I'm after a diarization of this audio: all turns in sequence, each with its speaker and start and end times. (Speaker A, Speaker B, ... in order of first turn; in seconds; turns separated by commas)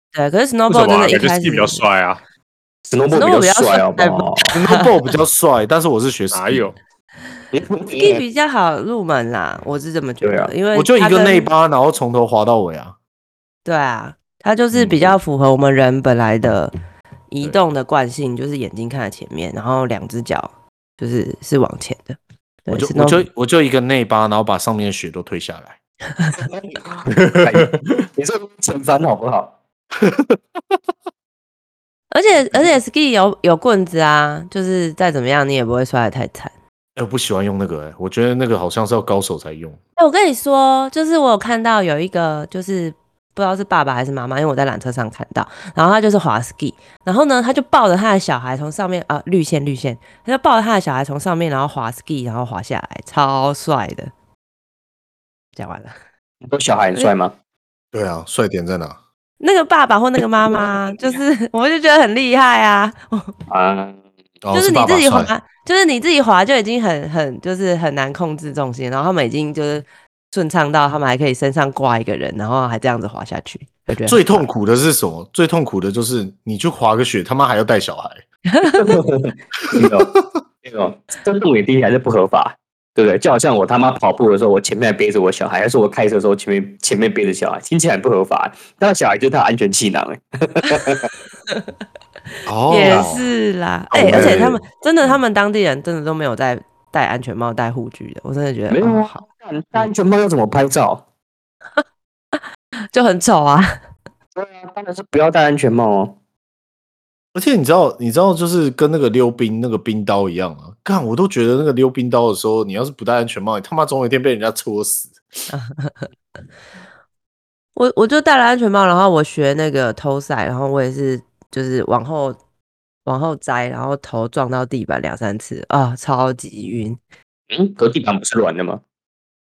Speaker A: 0.1-1.8, Speaker B: 0.7-2.2, Speaker C: 2.9-4.5, Speaker A: 3.1-4.9, Speaker D: 4.5-6.7, Speaker B: 6.3-6.8, Speaker C: 7.5-8.2, Speaker A: 7.9-11.5, Speaker C: 10.2-10.5, Speaker D: 10.7-12.9, Speaker A: 13.6-16.7, Speaker D: 14.7-15.2, Speaker A: 17.3-23.2, Speaker D: 22.7-25.8, Speaker C: 26.5-29.5, Speaker B: 27.2-27.9, Speaker D: 30.0-30.4, Speaker A: 32.1-36.5, Speaker D: 37.0-39.8, Speaker A: 40.0-54.1, Speaker A: 55.5-55.9, Speaker C: 56.4-57.3, Speaker D: 57.9-59.0, Speaker A: 59.4-63.3, Speaker C: 63.5-64.0, Speaker D: 64.4-65.3, Speaker A: 64.5-74.4, Speaker D: 74.0-78.2, Speaker A: 78.5-78.9, Speaker C: 78.8-80.1, Speaker D: 79.7-80.3, Speaker C: 80.6-91.1, Speaker D: 92.5-93.3, Speaker A: 92.7-99.2, Speaker C: 92.8-93.1, Speaker D: 93.9-95.2, Speaker C: 94.1-94.5, Speaker C: 98.7-101.0, Speaker A: 102.3-103.7, Speaker C: 104.3-106.2, Speaker D: 107.3-115.2, Speaker A: 115.5-116.1, Speaker A: 117.8-122.4, Speaker A: 123.0-127.0, Speaker C: 127.5-128.8